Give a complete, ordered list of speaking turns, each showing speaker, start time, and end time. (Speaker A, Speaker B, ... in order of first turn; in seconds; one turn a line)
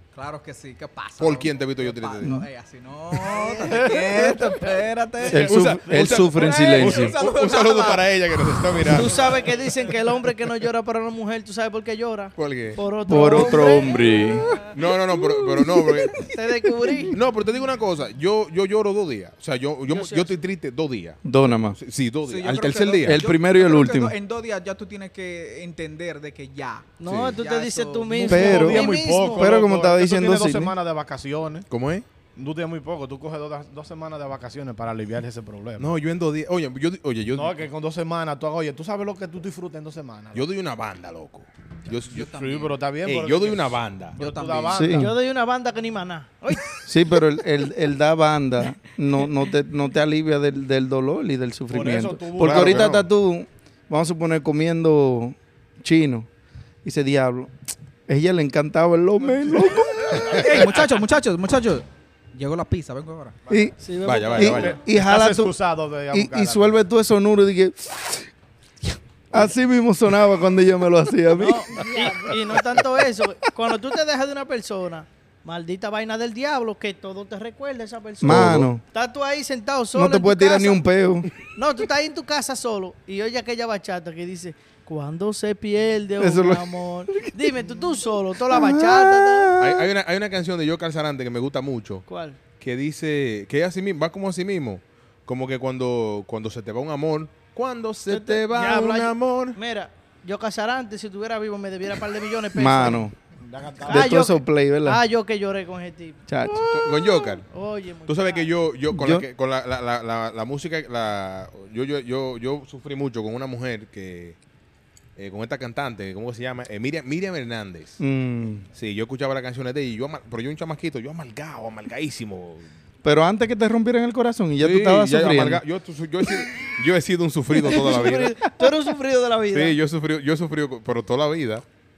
Speaker A: 0.1-5.6
Speaker B: 1.2-2.4
Speaker C: 2.2-2.5
Speaker D: 3.3-4.1
Speaker E: 3.7-4.6
Speaker C: 5.3-7.2
Speaker B: 5.3-9.2
Speaker E: 5.6-6.2
Speaker A: 6.2-9.3
Speaker D: 8.9-14.4
Speaker B: 12.4-12.8
Speaker C: 13.1-14.5
Speaker B: 14.7-16.3
Speaker C: 15.5-16.0
Speaker D: 16.2-17.2
Speaker B: 17.1-21.2
Speaker D: 19.9-20.4
Speaker C: 21.2-21.8
Speaker B: 21.8-23.3
Speaker A: 22.2-28.7
Speaker C: 23.0-24.1
Speaker D: 27.0-29.6
Speaker B: 27.1-27.3
Speaker C: 28.3-30.8
Speaker E: 28.3-31.7
Speaker B: 31.7-32.1
Speaker E: 32.4-35.9
Speaker B: 35.8-37.6
Speaker E: 37.3-40.5
Speaker B: 40.3-42.3
Speaker A: 42.1-42.8
Speaker E: 42.2-45.1
Speaker B: 43.0-44.6
Speaker A: 44.2-44.8
Speaker C: 44.7-45.1
Speaker D: 44.9-46.8
Speaker C: 46.8-56.3
Speaker E: 51.7-53.0
Speaker B: 52.4-53.1
Speaker C: 56.8-57.5
Speaker C: 58.1-60.8
Speaker E: 59.5-60.2
Speaker A: 60.3-63.4
Speaker D: 63.8-64.8
Speaker B: 64.0-64.8
Speaker C: 64.3-65.6
Speaker E: 64.8-66.8
Speaker C: 66.1-68.3
Speaker C: 68.8-71.8
Speaker D: 71.3-80.8
Speaker C: 78.2-78.8
Speaker B: 78.2-78.7
Speaker C: 80.0-81.3
Speaker D: 81.5-89.6
Speaker C: 86.2-87.5
Speaker C: 88.4-89.9
Speaker B: 89.6-92.1
Speaker D: 92.1-92.4
Speaker B: 92.6-99.6
Speaker D: 98.1-103.0
Speaker C: 102.5-103.2
Speaker E: 103.4-104.2
Speaker D: 103.8-106.2
Speaker C: 103.9-105.0
Speaker C: 106.3-107.2
Speaker B: 106.6-107.5
Speaker D: 107.4-108.5
Speaker B: 108.1-114.4
Speaker C: 108.9-109.3
Speaker B: 115.2-118.0
Speaker C: 118.0-118.7
Speaker B: 118.7-122.7
Speaker C: 123.0-125.6
Speaker B: 124.6-128.4
Speaker C: 127.7-128.1
Speaker D: 127.8-129.8
Speaker B: 129.5-131.7